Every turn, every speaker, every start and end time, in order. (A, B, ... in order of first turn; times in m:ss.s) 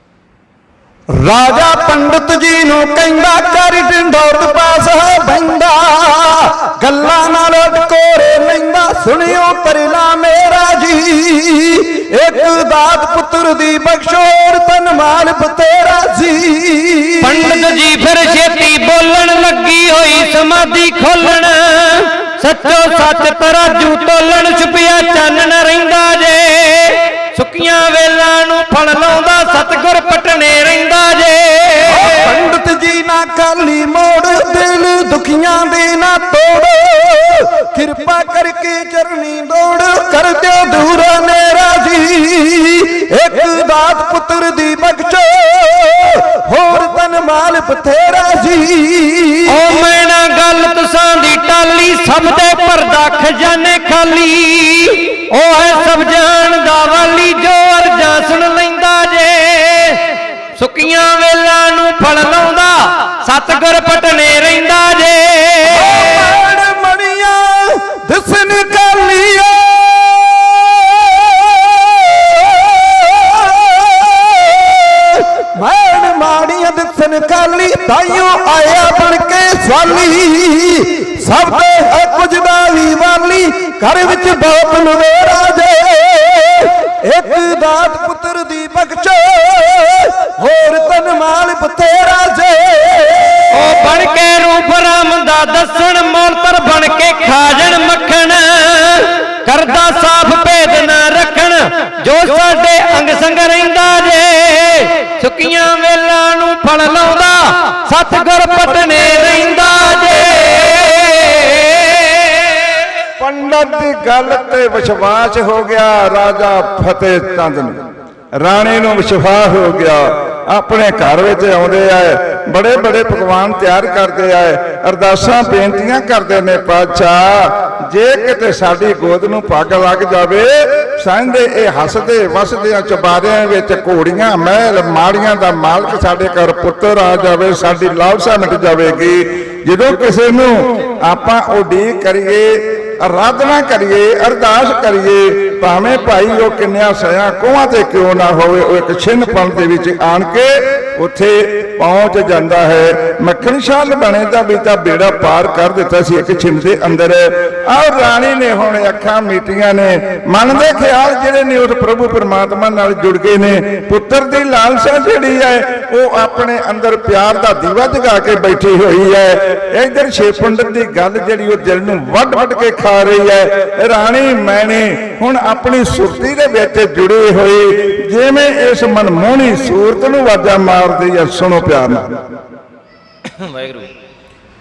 0:01.1-0:17.6 A
0:17.2-0:32.2 B
0:31.9-0:49.5 A
0:49.4-1:06.3 B
1:05.8-1:33.5 A
1:33.5-1:52.7 B
1:53.2-1:57.8 C
1:58.4-3:02.2 C
3:03.6-3:03.8 B